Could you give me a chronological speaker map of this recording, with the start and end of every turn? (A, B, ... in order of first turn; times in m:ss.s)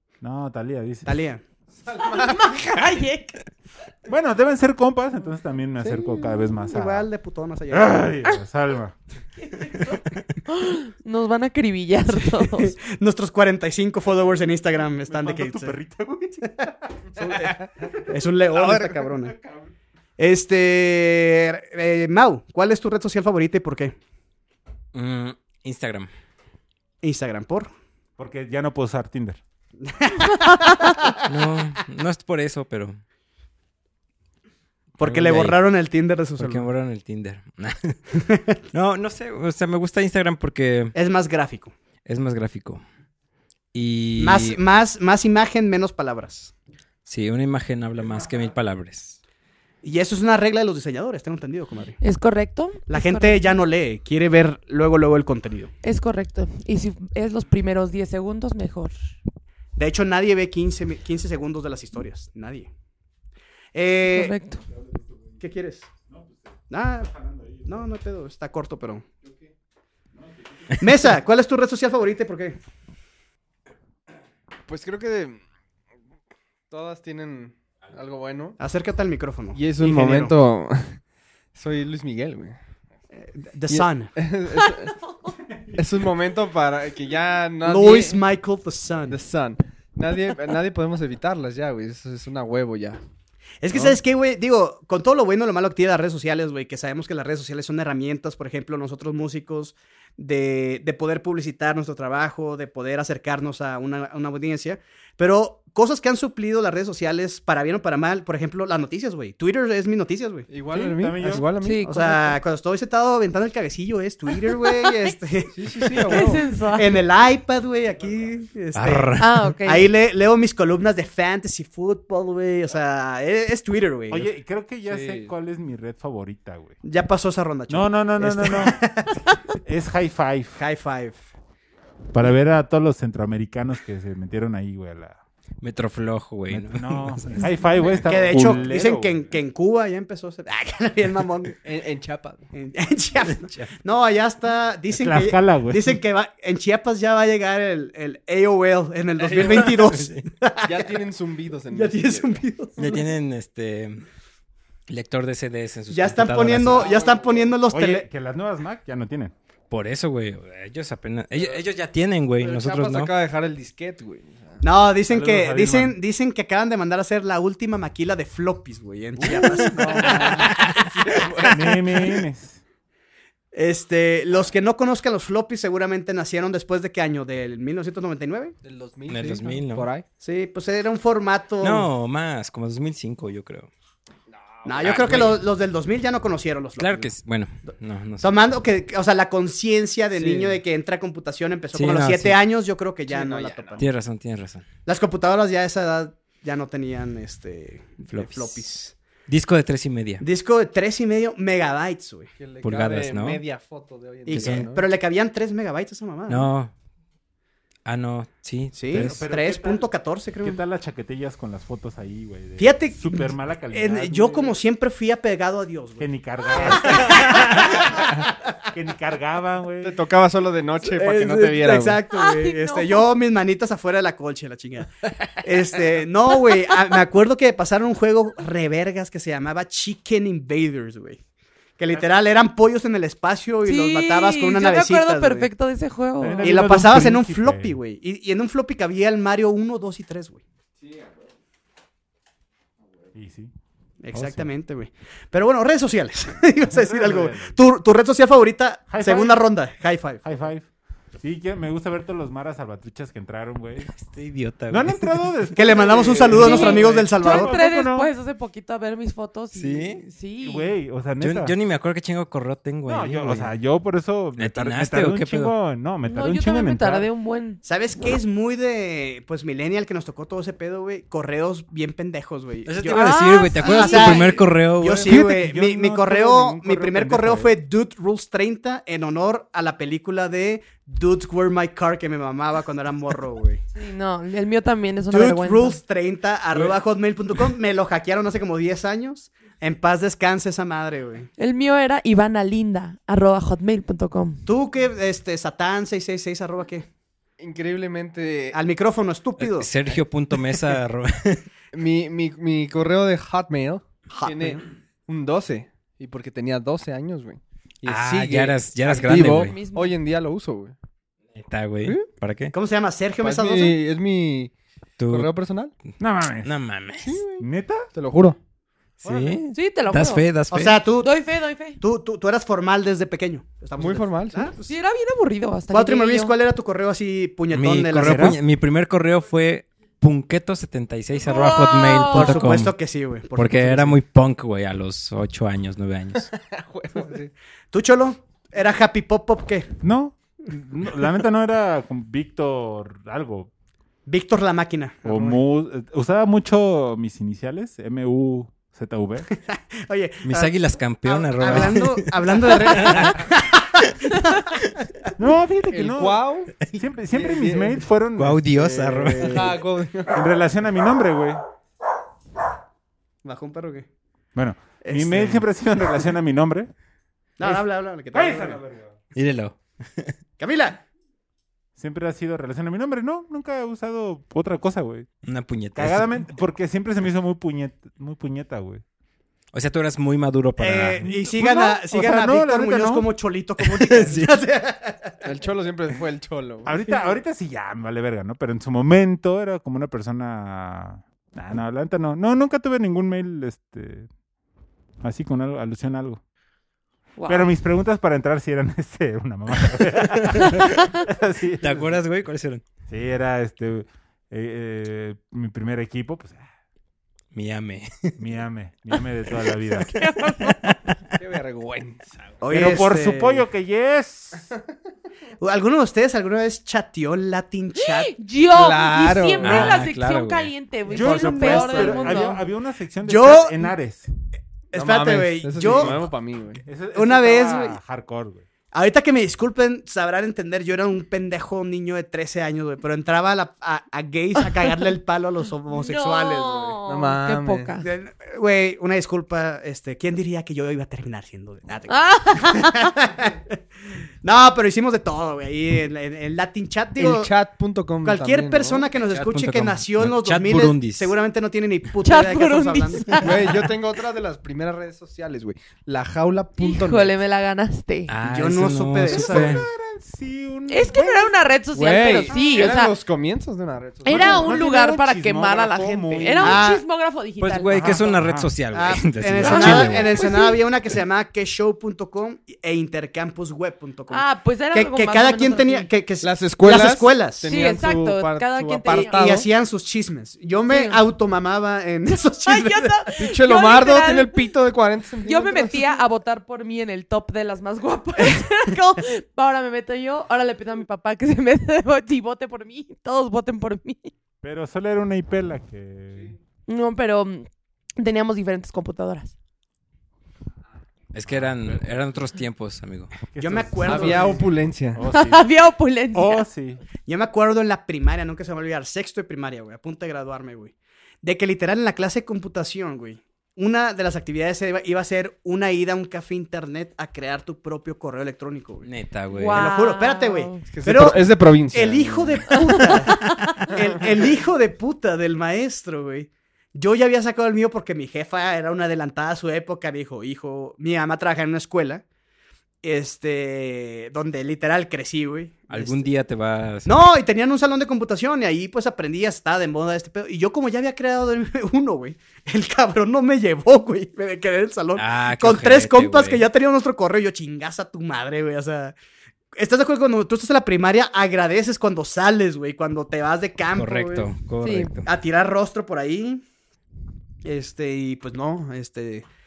0:00.2-0:01.1 A
0:01.0-0:01.4 B
0:01.9-0:02.4 C
0:01.9-0:03.4 D
0:04.1-0:07.0 A
0:06.6-0:08.1 B
0:07.7-0:08.9 A
0:09.4-0:12.8 D
0:12.4-0:15.8 B
0:15.1-0:16.6 A
0:16.6-0:19.3 B
0:18.7-0:19.7 A
0:20.2-0:23.9 B
0:24.9-0:26.1 E
0:27.0-0:27.7 B
0:28.2-0:29.4 A
0:29.8-0:31.2 B
0:30.3-0:31.1 D
0:31.2-0:33.0 E
0:35.0-0:36.7 B
0:35.0-0:35.6 E
0:36.4-0:38.0 E
0:38.1-0:38.6 B
0:38.7-0:40.9 E
0:40.9-0:41.7 B
0:42.0-0:42.8 E
0:43.7-0:44.6 E
0:44.2-0:46.5 B
0:47.0-0:49.2 E
0:49.8-0:52.0 B
0:52.0-0:53.5 D
0:52.9-0:55.7 B
0:55.8-0:58.9 D
0:59.8-1:02.7 B
1:03.7-1:04.3 B
1:04.0-1:04.6 D
1:04.7-1:05.1 A
1:05.4-1:05.9 B
1:06.1-1:06.5 A
1:06.7-1:07.1 B
1:07.1-1:07.7 A
1:07.6-1:09.0 B
1:10.2-1:10.8 A
1:10.8-1:12.6 B
1:14.7-1:15.4 C
1:16.7-1:18.6 C
1:18.6-1:19.6 B
1:19.5-1:21.0 C
1:19.8-1:20.2 A
1:21.5-1:22.6 C
1:23.1-1:24.1 B
1:23.7-1:25.0 C
1:25.7-1:28.2 C
1:27.6-1:29.2 B
1:29.1-1:33.0 C
1:33.6-1:50.5 B
1:50.5-1:52.3 C
1:50.7-1:51.5 A
1:51.6-1:52.1 D
1:51.8-2:04.3 B
1:55.5-1:56.4 C
1:56.1-1:57.0 D
1:58.7-1:59.5 E
1:59.2-1:59.9 D
2:04.1-2:06.8 A
2:04.8-2:05.3 C
2:06.8-2:09.2 B
2:07.7-2:08.8 A
2:09.6-2:10.6 A
2:10.6-2:11.2 B
2:12.1-2:15.2 A
2:15.6-2:17.6 E
2:16.5-2:19.2 A
2:18.0-2:21.6 B
2:21.6-2:22.4 C
2:22.5-2:31.0 B
2:23.4-2:23.7 E
2:24.9-2:26.0 A
2:29.2-2:29.9 C
2:29.3-2:30.2 E
2:30.6-2:32.4 C
2:31.7-2:33.0 B
2:32.8-2:34.0 E
2:34.9-2:36.9 E
2:35.9-2:38.0 B
2:36.6-2:37.5 C
2:37.7-2:39.3 A
2:39.7-2:43.1 E
2:42.4-2:44.6 C
2:44.6-2:51.4 B
2:45.1-2:46.0 A
2:49.2-2:52.1 C
2:51.4-2:52.6 A
2:53.5-2:58.5 B
2:58.6-3:00.0 C
2:59.1-2:59.9 E
3:00.2-3:01.9 B
3:01.6-3:03.7 E
3:04.3-3:05.1 C
3:04.6-3:07.1 B
3:04.8-3:05.4 E
3:06.8-3:08.3 E
3:08.2-3:13.8 B
3:10.1-3:10.6 C
3:11.7-3:12.4 E
3:13.1-3:13.9 C
3:13.8-3:14.6 E
3:14.8-3:18.9 B
3:18.1-3:18.6 E
3:19.3-3:20.2 E
3:20.2-3:22.3 B
3:22.4-3:24.9 C
3:22.6-3:23.4 E
3:24.2-3:26.5 B
3:24.3-3:24.7 E
3:26.3-3:26.7 E
3:27.8-3:29.2 E
3:28.7-3:30.6 B
3:28.9-3:29.9 A
3:30.4-3:34.5 A
3:32.6-3:38.0 B
3:36.0-3:39.9 A
3:39.8-3:42.0 C
3:40.8-3:51.2 B
3:42.1-3:43.1 D
3:51.8-3:55.5 B
3:53.6-3:56.6 D
3:56.2-3:57.8 A
3:56.4-4:00.4 B
4:00.8-4:01.1 C
4:03.1-4:03.5 A
4:04.0-4:10.2 B
4:06.7-4:07.6 A
4:08.9-4:09.4 A
4:10.2-4:10.7 A
4:11.2-4:13.9 A
4:13.8-4:15.5 E
4:14.7-4:18.1 A
4:15.5-4:17.5 B
4:16.3-4:20.7 D
4:19.5-4:20.0 E
4:20.4-4:21.5 A
4:21.2-4:23.5 E
4:22.9-4:27.1 A
4:24.4-4:25.5 E
4:26.0-4:27.6 D
4:27.6-4:43.6 B
4:32.6-4:35.2 E
4:32.8-4:34.3 D
4:34.9-4:37.5 A
4:43.7-4:45.8 D
4:45.1-4:51.3 B
4:51.4-4:54.5 D
4:54.4-4:56.9 B
4:57.4-4:58.6 C
4:58.5-4:59.7 B
4:59.4-5:01.4 E
5:01.7-5:10.7 C
5:04.1-5:04.6 B
5:07.8-5:09.6 E
5:08.9-5:10.0 D
5:11.3-5:12.5 E
5:12.5-5:13.8 B
5:13.2-5:14.5 C
5:15.0-5:15.3 E
5:15.0-5:15.7 C
5:16.0-5:16.5 A
5:16.4-5:17.2 E
5:17.0-5:18.4 C
5:17.4-5:17.9 A
5:19.0-5:19.4 A
5:19.0-5:20.8 E
5:19.5-5:20.2 D
5:20.5-5:21.1 B
5:20.9-5:21.8 D
5:21.8-5:24.8 B
5:23.8-5:24.5 C
5:24.6-5:26.3 D
5:25.7-5:28.4 B
5:27.5-5:32.8 E
5:28.0-5:28.4 A
5:31.2-5:32.6 D
5:32.1-5:34.0 B
5:33.4-5:36.3 E
5:36.2-5:37.3 C
5:37.7-5:39.7 B
5:39.8-5:43.5 A
5:44.0-5:45.4 B
5:45.0-5:49.3 A
5:49.3-5:55.1 B
5:50.2-5:53.3 E
5:55.2-6:01.4 A
5:55.7-5:56.6 C
5:57.1-5:57.8 C
5:58.2-5:59.6 E
5:59.2-6:00.3 C
6:03.2-6:03.9 B
6:04.3-6:06.7 A
6:04.8-6:05.4 B
6:07.4-6:08.6 B
6:08.1-6:09.0 A
6:09.1-6:10.2 E
6:10.4-6:10.8 B
6:11.8-6:15.1 A
6:15.2-6:16.2 E
6:15.7-6:18.8 A
6:19.5-6:21.0 E
6:20.6-6:25.2 B
6:21.0-6:23.0 A
6:23.6-6:24.3 E
6:25.2-6:26.8 C
6:26.6-6:34.1 A
6:35.0-6:36.2 A
6:37.2-6:37.5 D
6:37.2-6:42.0 A
6:39.7-6:40.8 E
6:40.5-6:41.1 D
6:41.6-6:42.6 E
6:42.9-6:46.4 A
6:47.3-6:48.1 E
6:48.2-6:50.0 A
6:49.9-6:50.5 D
6:50.4-6:51.0 E
6:51.1-6:52.3 C
6:52.4-6:53.4 B
6:52.5-6:54.5 A
6:55.4-6:58.2 B
6:57.8-7:02.4 D
6:58.5-6:59.8 C
6:59.4-7:00.5 E
7:00.9-7:04.1 A
7:01.2-7:02.0 C
7:01.7-7:02.2 B
7:03.0-7:03.7 B
7:04.7-7:06.0 B
7:04.7-7:06.6 C
7:05.6-7:06.1 A
7:06.6-7:08.4 A
7:06.9-7:07.8 B
7:08.7-7:16.8 B
7:15.7-7:17.9 D
7:16.8-7:17.8 C
7:17.8-7:23.6 B
7:21.9-7:22.9 D
7:24.2-7:27.3 B
7:27.0-7:28.9 C
7:28.0-7:33.5 B
7:29.0-7:31.1 E
7:32.0-7:33.6 D
7:33.2-7:37.2 C
7:36.6-7:38.1 D
7:38.1-7:39.6 E
7:38.2-7:39.6 B
7:39.1-7:42.7 A
7:40.7-7:42.9 D
7:41.7-7:44.6 C
7:44.0-7:48.0 D
7:44.1-7:46.6 A
7:46.4-7:46.8 B
7:47.4-7:50.2 E
7:47.7-7:48.5 A
7:48.7-7:57.6 B
7:49.4-7:50.6 D
7:54.1-7:55.9 D
7:56.2-7:59.5 C
7:57.4-7:59.4 D
7:58.8-8:03.1 B
8:00.6-8:01.0 D
8:02.4-8:04.5 D
8:03.2-8:06.0 C
8:05.2-8:14.1 D
8:14.4-8:16.4 A
8:16.7-8:19.3 D
8:21.1-8:23.1 E
8:21.3-8:21.9 A
8:23.2-8:25.5 A
8:23.4-8:24.4 B
8:23.8-8:25.0 C
8:25.0-8:26.5 D
8:26.1-8:26.8 A
8:27.1-8:38.9 B
8:38.8-8:39.7 E
8:39.3-8:40.7 D
8:39.5-8:52.0 B
8:40.7-8:42.8 C
8:43.1-8:43.8 D
8:52.8-8:56.1 B
8:55.7-8:57.0 E
8:56.8-9:08.9 B
9:05.0-9:06.4 E
9:09.6-9:14.3 B
9:13.7-9:15.0 E
9:14.6-9:14.9 D
9:15.0-9:16.4 B
9:17.4-9:19.2 B